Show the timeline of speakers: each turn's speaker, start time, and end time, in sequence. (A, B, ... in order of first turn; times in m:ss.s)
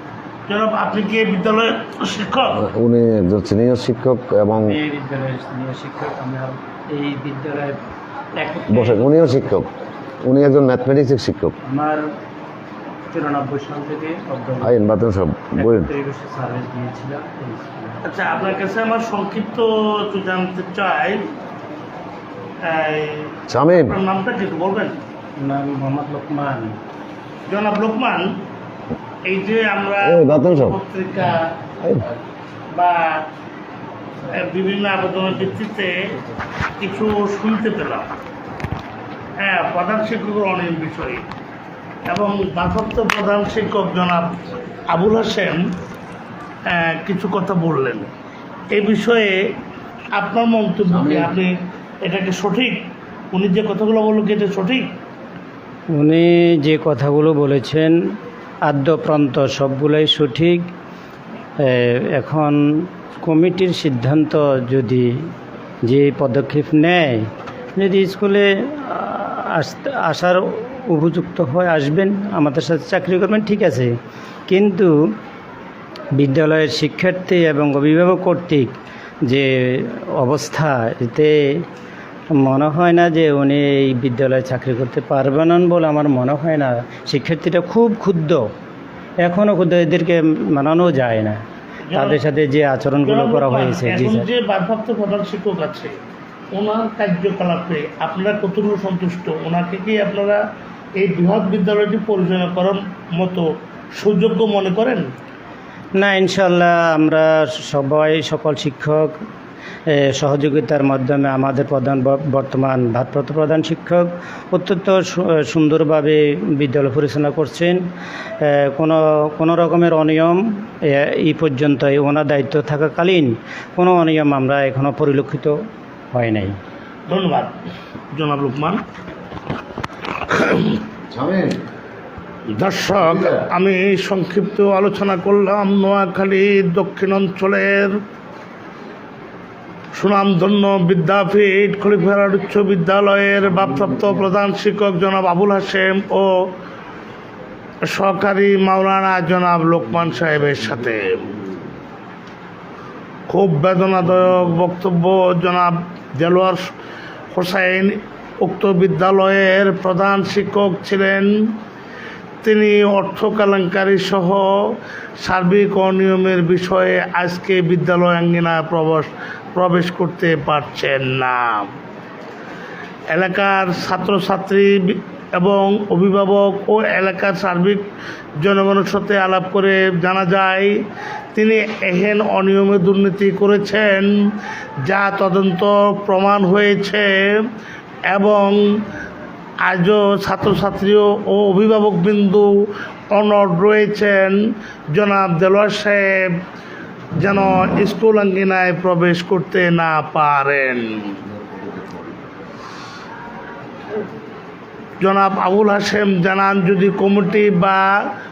0:00.5-0:02.6 A
0:02.5-0:04.8 B
0:04.5-0:07.8 C
0:08.4-0:09.4 C
0:08.7-0:09.7 B
0:10.2-0:11.6 B
0:11.6-0:12.0 C
0:13.1-0:14.8 C
0:14.6-0:15.9 B
0:15.6-0:18.0 C
0:18.0-0:21.3 A
0:22.6-0:25.0 A
0:23.5-0:24.0 B
0:25.4-0:26.8 C
0:27.5-0:28.4 A
0:29.2-0:31.6 A
0:30.0-0:30.8 B
0:31.8-0:32.1 B
0:32.7-0:33.3 A
0:34.3-0:36.1 A
0:36.8-0:38.1 A
0:39.4-0:41.3 A
0:42.1-0:45.7 A
0:46.7-0:48.1 A
0:48.7-0:49.5 A
0:50.1-0:54.9 A
0:50.9-0:51.2 B
0:55.9-0:57.9 C
0:58.6-1:00.6 C
1:01.6-1:05.1 C
1:05.9-1:13.9 C
1:14.5-1:14.9 C
1:16.2-1:18.8 C
1:19.3-1:21.7 C
1:22.4-1:28.5 C
1:29.2-1:31.4 C
1:31.9-1:32.2 A
1:31.9-1:34.3 C
1:33.0-1:36.0 A
1:36.5-1:40.4 A
1:41.0-1:45.1 A
1:46.0-1:49.1 C
1:49.9-1:57.8 C
1:58.4-2:05.6 C
2:06.1-2:06.6 C
2:07.1-2:07.6 A
2:08.1-2:08.8 A
2:10.2-2:10.8 A
2:11.1-2:11.6 B
2:12.5-2:18.0 A
2:13.0-2:13.5 B
2:19.9-2:26.5 A
2:27.8-2:31.4 A
2:33.3-2:36.7 A
2:37.3-2:41.3 A
2:42.4-2:51.7 A
2:53.1-2:57.8 A
2:58.4-3:04.2 A
3:04.8-3:07.5 A
3:08.1-3:08.6 A
3:09.6-3:14.4 A
3:14.9-3:16.3 A
3:17.2-3:21.2 A
3:25.0-3:27.9 A